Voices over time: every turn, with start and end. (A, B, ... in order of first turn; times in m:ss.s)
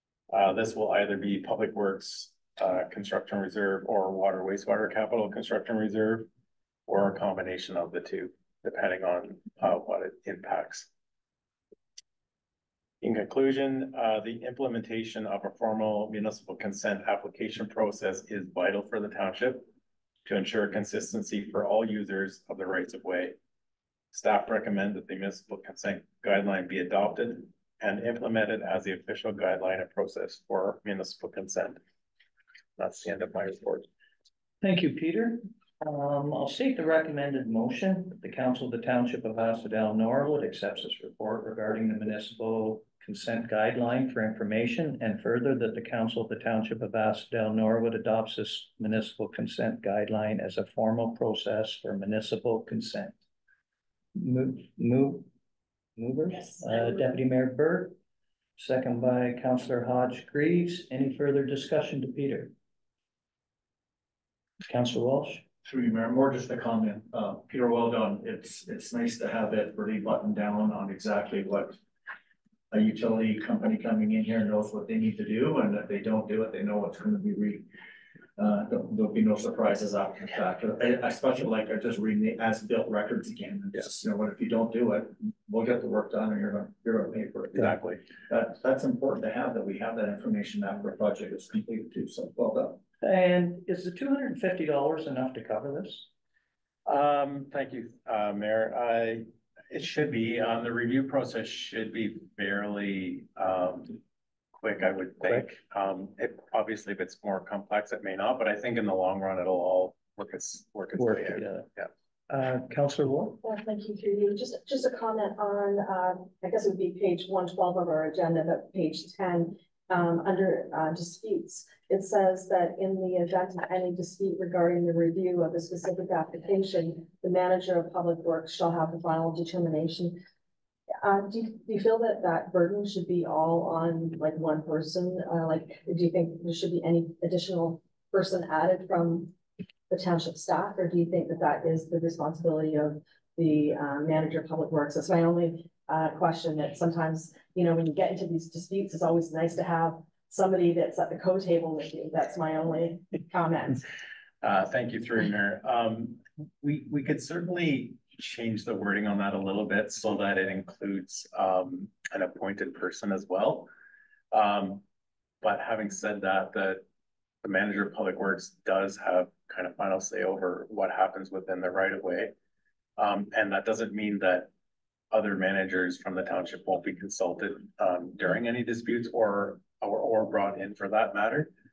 0:00.3-0:06.3 A
0:06.9-0:10.9 A
0:13.0-0:19.7 A
0:20.3-0:23.4 A
0:24.1-0:31.8 A
0:32.8-0:33.9 A
0:34.6-0:53.2 B
0:54.2-0:55.3 B
0:56.0-0:58.0 B
0:58.6-1:02.5 B
1:04.6-1:05.4 B
1:05.6-1:11.8 C
1:12.7-1:17.6 C
1:18.4-1:32.8 C
1:27.5-1:28.0 A
1:33.0-1:36.1 B
1:36.9-1:44.0 A
1:44.6-1:51.9 A
1:45.2-1:45.5 B
1:50.9-1:51.7 B
1:52.3-1:53.4 B
1:53.4-2:10.2 D
2:11.0-2:19.3 D
2:19.9-2:33.8 D
2:34.4-2:43.7 A
2:44.3-2:44.8 A
2:45.4-2:46.8 A
2:47.4-2:52.3 A
2:53.0-2:54.5 A
2:55.1-3:01.6 A